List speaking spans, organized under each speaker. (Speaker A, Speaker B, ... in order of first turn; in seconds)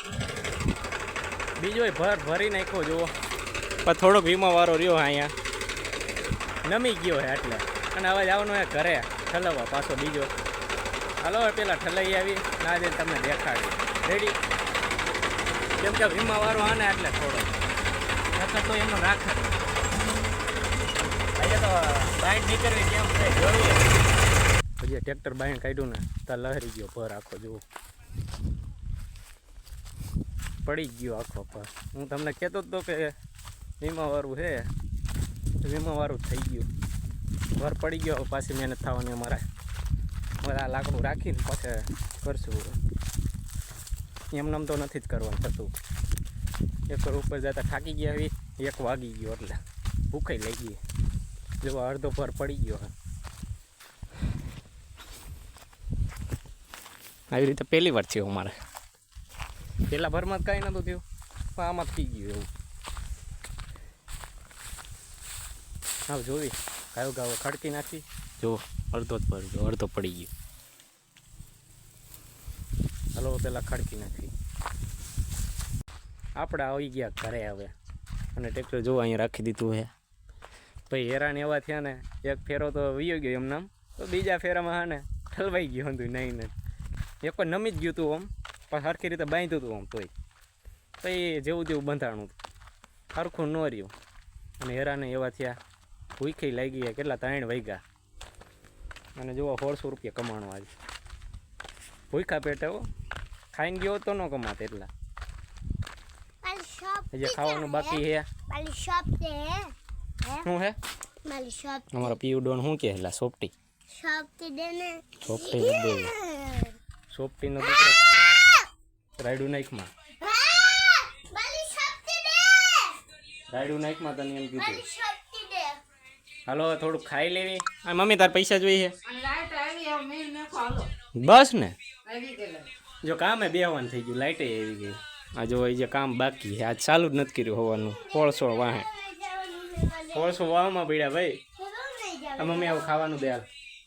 Speaker A: 1.6-3.1, 3.8-5.3, 6.6-10.3, 11.2-14.4, 15.8-17.6, 18.4-19.6, 21.4-23.9, 24.8-27.6, 30.6-33.1, 33.8-34.7, 35.6-36.7, 37.6-39.4, 40.4-42.8, 44.3-45.7, 46.9-50.8, 51.6-52.9, 57.3-58.6, 59.9-61.0, 61.5-62.5, 66.1-70.3, 73.1-74.3, 76.4-77.7, 78.3-79.9, 80.9-86.5, 87.2-90.1, 91.0-92.4, 93.1-93.9, 94.6-95.6, 96.2-97.8, 99.2-100.7, 102.1-102.8, 103.5-104.9, 107.1-108.3, 110.4-110.8, 111.9-113.5, 115.2-116.2, 117.1-118.1, 119.2-119.9, 123.5-124.8, 126.5-128.9, 131.1-131.8, 133.0-138.9, 140.1-141.4, 142.3-143.4
Speaker B: 106.4-110.5, 111.2-112.1, 113.9-116.8, 120.2-123.0, 124.6-125.8, 138.7-140.3, 141.6-143.1
Speaker C: 129.0-130.9, 132.0-132.7